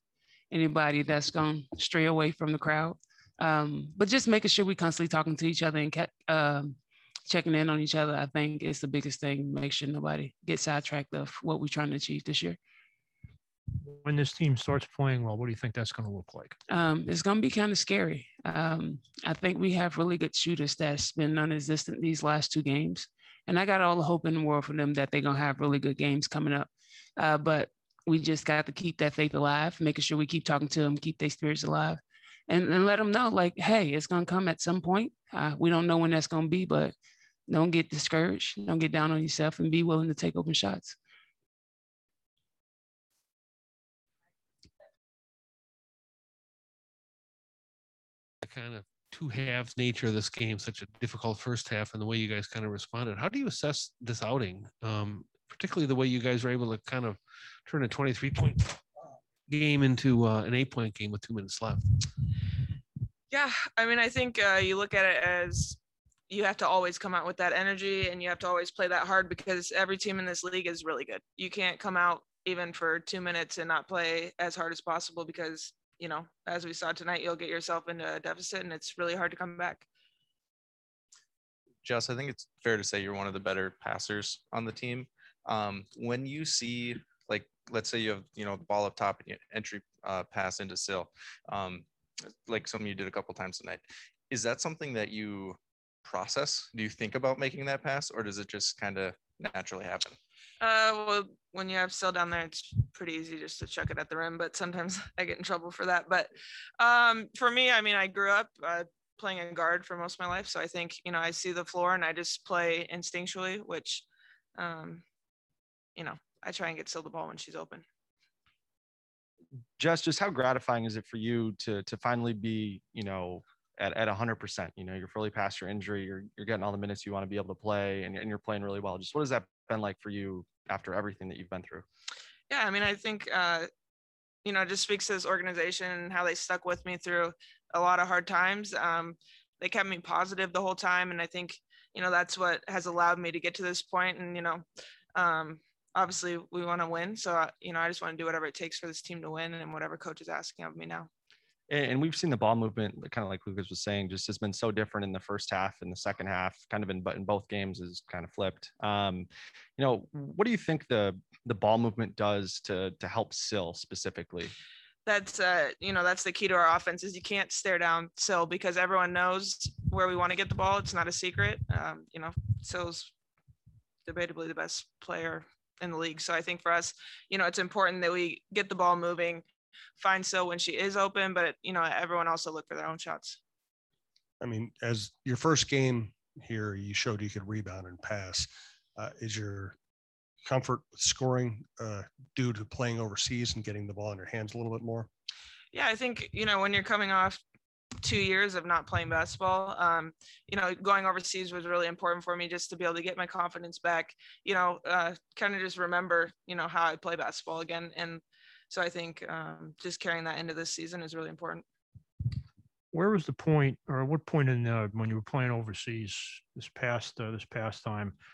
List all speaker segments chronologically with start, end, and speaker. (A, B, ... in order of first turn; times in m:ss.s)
0:00.5-0:12.6 A
0:13.8-0:16.6 B
0:16.7-0:36.9 A
0:37.5-0:41.0 A
0:48.4-0:58.8 C
0:59.5-1:01.9 C
1:03.3-1:05.8 D
1:06.3-1:19.9 D
1:21.8-1:31.8 E
1:32.5-1:40.2 E
1:40.6-1:54.0 D
1:54.6-1:55.0 D
1:56.0-1:57.8 D
1:59.8-2:11.9 F
2:12.5-2:13.7 D
2:14.4-2:24.6 D
2:25.2-2:31.1 D
2:31.7-2:44.5 F
2:45.1-2:53.1 D
2:54.1-2:59.4 D
3:00.0-3:03.4 D
3:04.4-3:09.8 G
3:10.4-3:15.1 G
3:15.7-3:17.4 D
3:18.0-3:31.6 D
3:32.9-3:38.2 B